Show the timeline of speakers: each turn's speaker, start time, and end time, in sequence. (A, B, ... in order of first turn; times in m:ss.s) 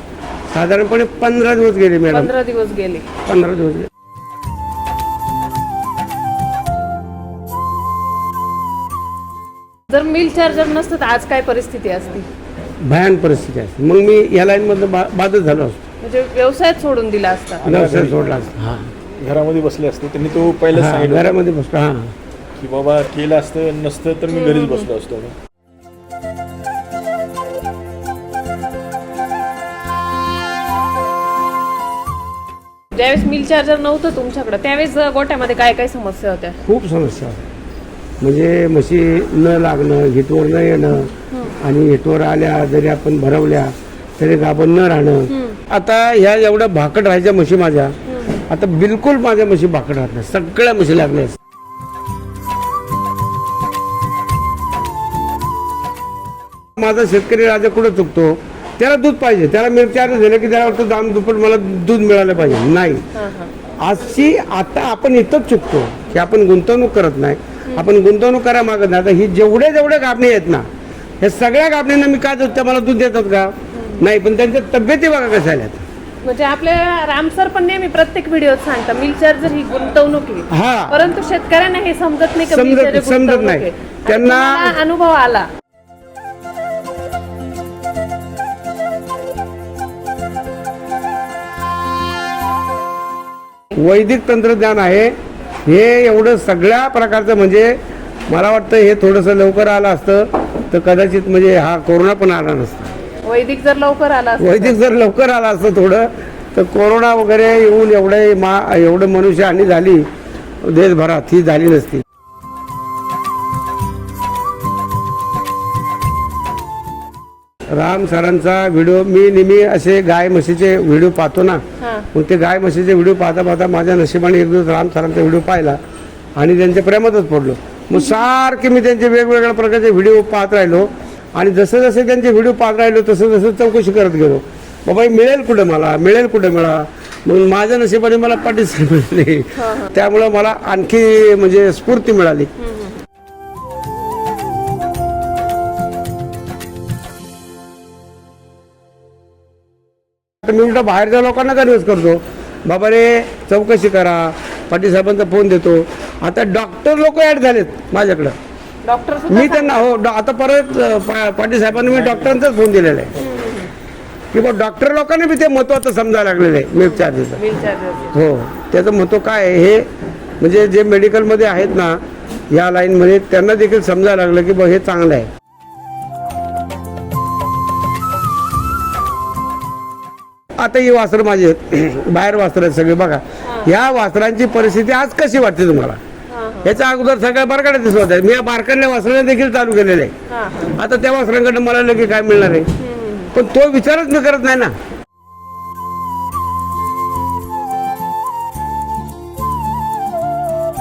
0:00.5-0:02.3 A
0:02.1-0:03.1 B
0:03.2-0:03.9 A
0:09.9-0:12.2 B
0:12.8-0:15.8 A
0:16.0-0:17.6 B
0:17.6-0:18.4 C
0:17.6-0:18.9 A
0:19.2-0:21.4 C
0:20.7-0:22.1 A
0:22.6-0:25.3 C
0:24.3-0:24.9 B
0:32.9-0:36.6 B
0:36.6-0:37.4 A
0:38.2-0:48.0 A
0:45.3-0:45.6 B
0:48.1-0:48.4 B
0:48.5-0:51.4 A
0:56.8-1:03.0 A
1:03.1-1:03.5 B
1:03.8-1:10.6 A
1:11.2-1:15.8 A
1:13.7-1:14.0 B
1:16.2-1:25.5 B
1:20.5-1:21.0 A
1:22.4-1:24.8 A
1:33.7-1:35.1 A
1:35.6-1:37.8 A
1:38.3-1:42.9 A
1:43.2-1:44.8 B
1:44.4-1:50.1 A
1:50.6-1:52.0 A
1:57.7-2:01.6 A
2:01.8-2:02.1 B
2:02.1-2:05.8 A
2:06.4-2:22.5 A
2:19.6-2:19.9 B
2:22.6-2:23.0 B
2:30.4-2:38.4 A
2:38.8-2:39.8 B
2:39.3-2:43.1 A
2:41.9-2:42.4 C
2:43.2-2:43.7 B
2:44.3-2:47.4 A
2:46.8-2:48.1 B
2:48.1-2:49.8 A
2:50.4-2:52.0 A
2:52.5-2:55.3 A
3:00.6-3:06.0 A
3:03.4-3:03.7 B
3:06.3-3:06.7 B
3:06.6-3:10.1 A
3:10.3-3:10.7 B
3:10.8-3:12.7 A
3:12.8-3:13.3 B
3:13.3-3:14.7 A